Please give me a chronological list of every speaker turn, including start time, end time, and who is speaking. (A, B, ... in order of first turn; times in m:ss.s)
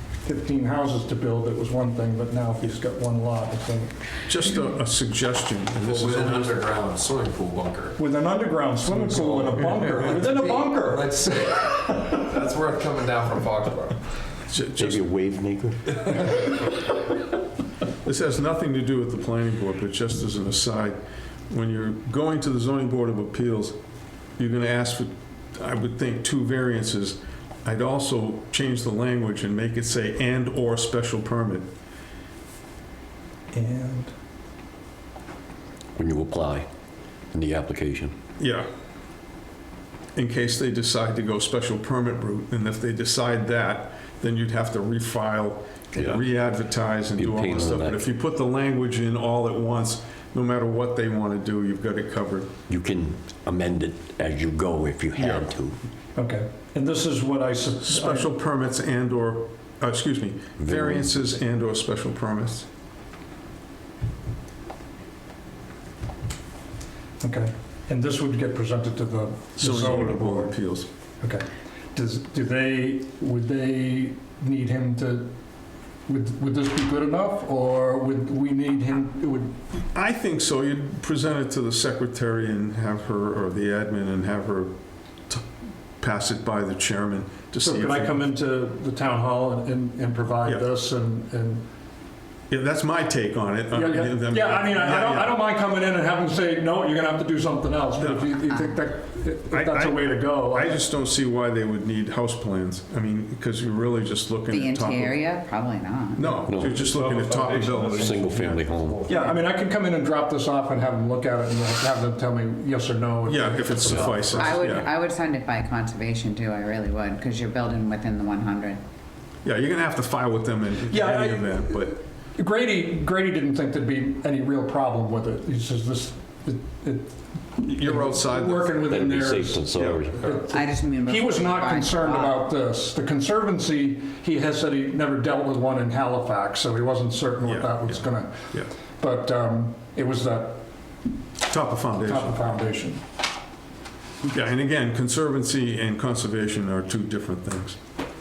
0:00.2-0:04.0 A
0:04.3-0:06.6 B
0:05.8-0:07.9 C
0:08.0-0:11.2 A
0:08.9-0:10.1 B
0:10.4-0:13.9 C
0:14.5-0:15.0 B
0:14.8-0:16.1 D
0:18.0-0:21.0 B
0:21.5-0:23.8 B
0:24.4-0:31.7 B
0:33.5-0:34.1 A
0:36.0-0:36.7 D
0:37.3-0:38.2 D
0:38.4-0:38.7 B
0:40.2-0:52.5 B
0:47.2-0:48.0 D
0:52.7-0:55.8 D
0:55.2-0:55.4 B
0:56.2-0:58.3 A
0:57.8-1:02.7 B
1:00.6-1:01.0 D
1:07.2-1:10.6 A
1:09.6-1:10.9 B
1:11.2-1:15.3 A
1:16.1-1:19.6 A
1:19.9-1:24.7 B
1:26.0-1:28.2 B
1:27.6-1:31.6 A
1:32.5-1:35.4 B
1:33.7-1:40.8 A
1:38.0-1:38.3 B
1:38.5-1:38.8 E
1:39.5-1:45.2 B
1:44.5-1:46.4 E
1:46.2-1:48.6 B
1:46.4-1:46.9 D
1:46.9-1:48.9 C
1:47.6-1:49.1 D
1:49.1-1:54.6 A
1:53.3-1:54.9 B
1:54.4-1:58.8 E
1:59.4-2:02.0 B
2:00.9-2:20.6 A
2:07.6-2:08.8 B
2:08.9-2:10.3 D
2:09.7-2:10.5 B
2:10.5-2:12.4 E
2:17.4-2:18.7 B
2:21.5-2:22.4 B
2:22.0-2:23.0 A
2:24.3-2:27.8 B